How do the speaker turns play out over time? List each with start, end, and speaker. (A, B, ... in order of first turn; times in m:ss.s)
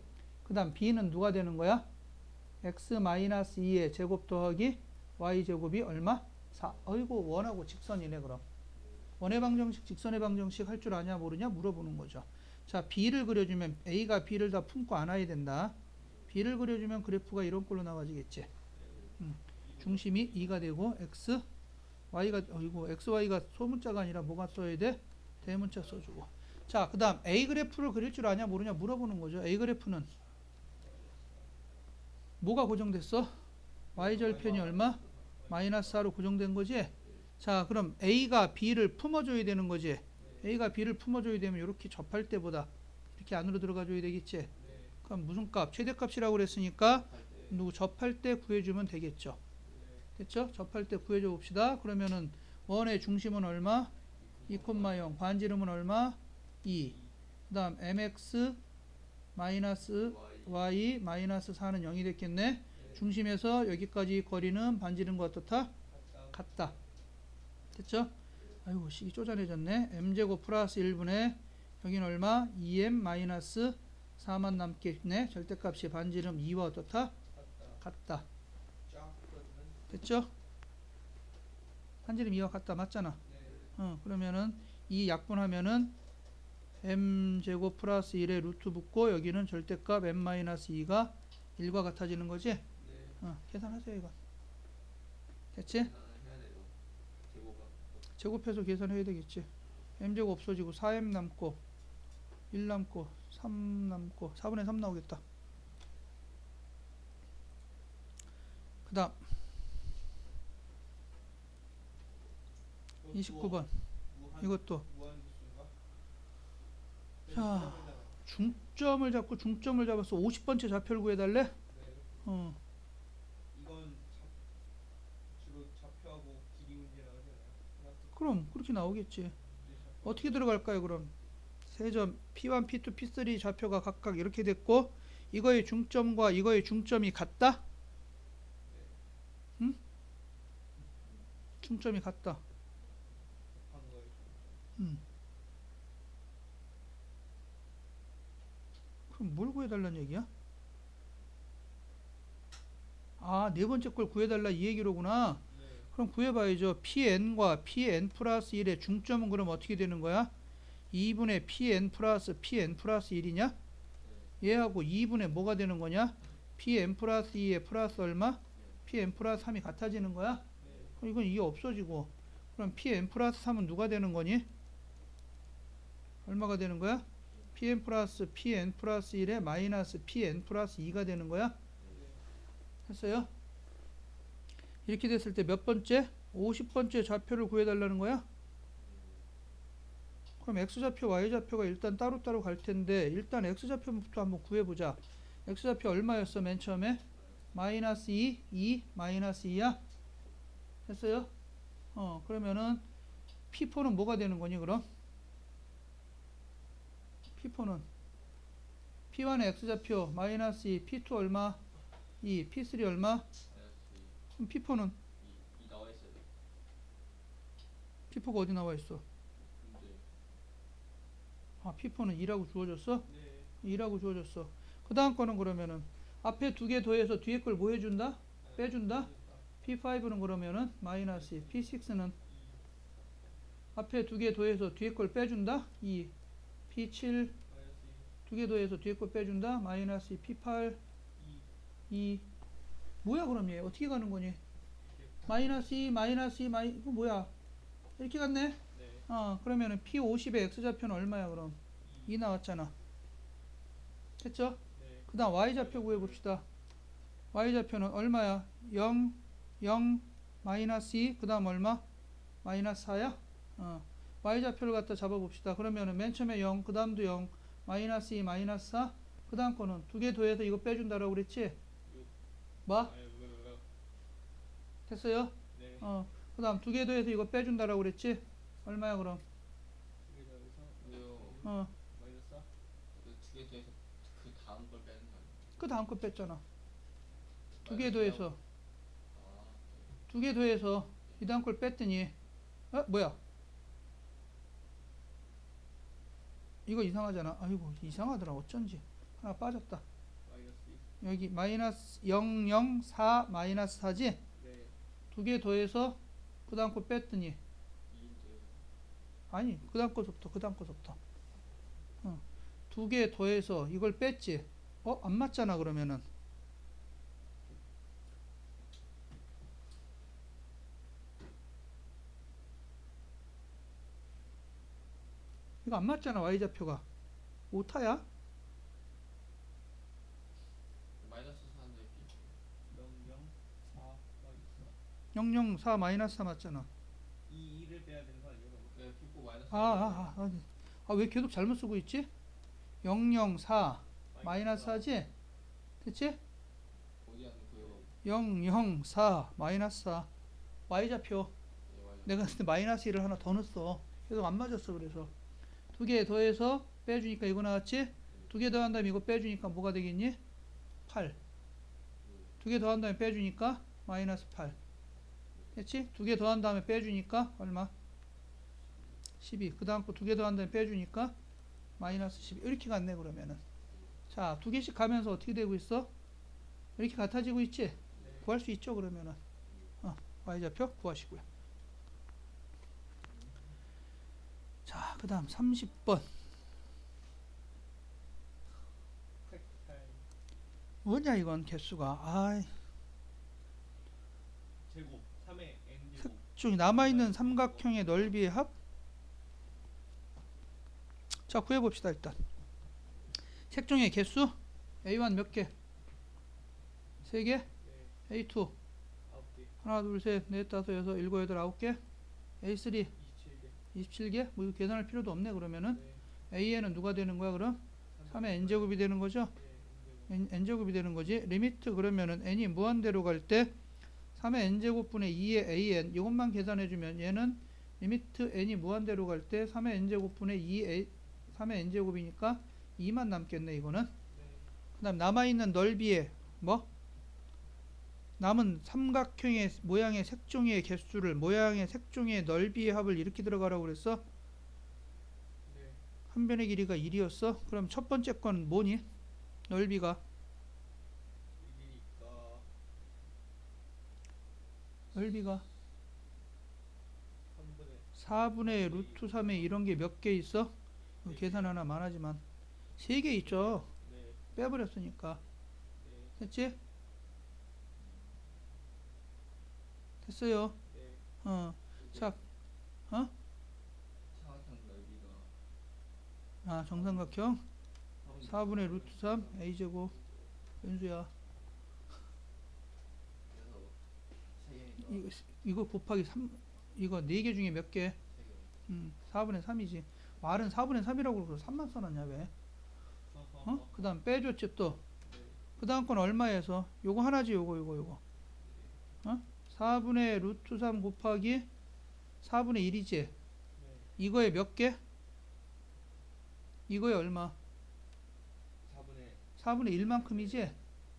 0:00.4-0:01.8 A
0:02.6-0:08.4 A
0:09.2-0:15.8 A
0:16.3-0:18.5 A
0:18.7-0:20.8 B
0:19.2-0:21.4 A
0:22.1-0:30.1 A
0:25.5-0:26.0 B
0:30.8-0:31.5 B
0:32.4-0:33.3 A
0:33.9-0:36.1 B
0:33.9-0:44.5 A
0:40.2-0:40.6 B
0:44.5-0:45.0 B
0:45.0-0:49.4 A
0:46.9-0:47.7 C
0:49.6-0:50.1 B
0:50.2-0:53.9 A
0:54.2-0:55.1 C
0:54.4-0:57.0 A
0:56.8-0:57.1 B
0:57.5-0:58.6 A
0:59.3-1:05.7 A
1:00.0-1:00.7 C
1:02.7-1:03.1 B
1:05.9-1:06.8 B
1:06.3-1:06.7 A
1:07.7-1:08.1 A
1:08.6-1:17.1 A
1:17.3-1:17.8 B
1:17.8-1:18.2 A
1:18.8-1:19.9 B
1:19.9-1:20.3 A
1:22.0-1:23.2 A
1:23.2-1:23.7 B
1:23.8-1:25.9 A
1:26.8-1:32.6 A
1:32.8-1:33.2 B
1:33.2-1:34.1 A
1:35.6-1:35.9 A
1:35.7-1:36.7 C
1:37.3-1:38.0 C
1:38.2-1:39.5 A
1:40.0-1:41.6 A
1:42.5-1:45.2 A
1:48.8-1:49.2 A
1:53.0-1:55.7 B
1:53.1-1:53.7 A
1:54.4-1:54.8 A
1:57.2-1:58.2 B
1:57.3-2:01.5 A
2:01.7-2:02.3 B
2:02.2-2:02.6 A
2:03.5-2:04.3 B
2:05.3-2:08.4 B
2:08.1-2:09.4 A
2:09.6-2:10.6 B
2:10.0-2:11.1 A
2:11.7-2:17.6 A
2:18.6-2:19.0 B
2:21.6-2:22.4 A
2:23.5-2:24.6 B
2:29.1-2:30.3 A
2:33.2-2:35.4 A
2:35.5-2:35.9 B
2:35.9-2:40.3 A
2:40.9-2:43.5 A
2:44.0-2:44.3 C
2:44.4-2:50.4 A
2:48.6-2:48.8 C
2:50.6-2:51.0 B
2:50.6-2:50.9 C
2:51.0-2:54.4 A
2:56.2-3:01.5 A
3:01.8-3:02.2 B
3:02.9-3:03.3 A
3:04.8-3:08.2 A
3:08.8-3:09.2 C
3:10.4-3:17.0 A
3:17.5-3:19.8 A
3:20.8-3:21.3 A
3:21.9-3:22.8 A
3:23.5-3:24.9 A
3:27.4-3:27.8 A
3:29.1-3:31.6 A
3:32.2-3:33.2 A
3:33.5-3:34.2 C
3:34.4-3:35.0 A
3:35.2-3:36.3 C
3:38.1-3:39.0 A
3:39.4-3:40.0 C
3:41.6-3:43.0 A
3:43.0-3:43.5 B
3:43.6-3:49.1 A
3:48.4-3:49.5 B
3:49.6-3:52.1 A
3:51.1-3:52.6 B
3:53.8-3:56.1 A
3:56.7-3:57.3 A
3:57.5-3:58.1 B
3:58.3-4:00.8 A
4:01.2-4:01.5 B
4:01.9-4:02.2 A
4:03.0-4:04.4 A
4:04.8-4:05.3 B
4:05.2-4:07.3 A
4:08.0-4:12.7 A
4:08.7-4:09.1 B
4:11.8-4:12.2 B
4:14.2-4:16.4 A
4:14.7-4:16.2 B
4:17.3-4:21.8 A
4:22.4-4:31.6 A
4:31.9-4:32.1 B
4:32.7-4:32.9 A
4:32.7-4:33.6 B
4:34.9-4:39.2 A
4:35.5-4:35.9 B
4:40.0-4:42.5 B
4:40.8-4:41.4 C
4:41.4-4:41.7 A
4:42.9-4:45.6 C
4:45.6-4:46.4 A
4:47.6-4:48.3 C
4:47.6-4:48.4 A
4:49.1-4:50.0 C
4:50.1-4:52.1 A
4:52.7-4:53.2 A
4:56.6-4:59.8 A
5:00.2-5:00.9 B
5:01.0-5:04.2 A
5:04.4-5:04.7 B
5:05.1-5:07.4 A
5:07.9-5:08.6 C
5:09.3-5:11.0 A
5:12.0-5:16.0 A
5:25.6-5:26.8 A
5:27.5-5:28.0 A
5:31.0-5:32.4 C
5:32.7-5:34.8 B
5:35.1-5:36.7 A
5:37.2-5:38.8 B
5:38.7-5:40.2 C
5:39.5-5:42.1 A
5:42.8-5:45.1 A
5:44.1-5:45.0 B
5:45.8-5:46.2 A
5:47.0-5:47.9 C
5:47.6-5:47.9 B
5:48.0-5:50.1 A
5:50.7-5:51.3 A
5:51.7-5:52.3 C
5:52.0-5:55.1 A
5:55.7-6:00.2 A
6:00.9-6:01.2 A
6:02.0-6:02.4 C
6:02.4-6:04.6 A
6:05.5-6:07.7 A
6:09.2-6:11.1 A
6:11.8-6:13.4 A
6:13.7-6:14.0 C
6:14.1-6:15.9 A
6:16.8-6:19.2 A
6:18.0-6:18.2 C
6:18.0-6:18.3 B
6:19.8-6:21.2 A
6:23.0-6:23.4 C
6:24.6-6:26.1 A
6:29.2-6:30.0 B
6:30.8-6:32.5 A
6:34.6-6:37.8 B
6:36.0-6:38.5 A
6:41.3-6:42.2 A
6:43.5-6:45.5 A
6:47.0-6:47.5 A
6:47.6-6:47.9 B
6:48.1-6:48.5 A
6:49.0-6:49.5 B
6:49.6-6:51.8 A
6:52.4-6:52.9 A
6:52.9-6:53.6 B
6:53.7-6:59.3 A
6:55.7-6:56.0 B
6:57.9-7:00.2 B
7:00.1-7:03.5 A
7:04.2-7:13.9 A
7:14.1-7:14.5 B
7:14.8-7:16.6 A
7:18.2-7:24.0 A
7:25.4-7:25.8 B
7:26.1-7:28.8 A
7:29.5-7:30.0 A
7:31.4-7:32.5 B
7:34.9-7:35.4 A
7:37.3-7:39.5 B
7:38.0-7:42.2 A
7:41.0-7:41.5 B
7:42.8-7:43.7 A
7:43.2-7:44.2 B
7:44.4-7:45.2 A
7:45.8-7:46.2 B
7:46.2-7:46.6 A
7:50.0-7:50.6 A
7:50.6-7:51.0 B
7:51.2-7:52.2 A
7:51.8-7:52.2 C
7:54.1-7:55.3 C
7:56.4-7:57.4 A
7:58.0-7:58.9 C
7:58.2-7:59.9 A
7:58.6-8:00.3 B
8:00.6-8:01.1 A
8:03.2-8:05.1 C
8:04.8-8:08.0 A
8:08.1-8:08.6 C
8:08.7-8:12.3 A
8:13.1-8:13.7 B
8:13.4-8:14.8 A
8:15.0-8:15.4 B
8:15.6-8:18.0 A
8:18.4-8:18.7 B
8:19.0-8:21.5 A
8:22.2-8:23.1 A
8:23.6-8:23.9 B
8:24.0-8:24.8 A
8:26.7-8:27.4 A
8:28.6-8:30.5 B
8:29.4-8:30.6 A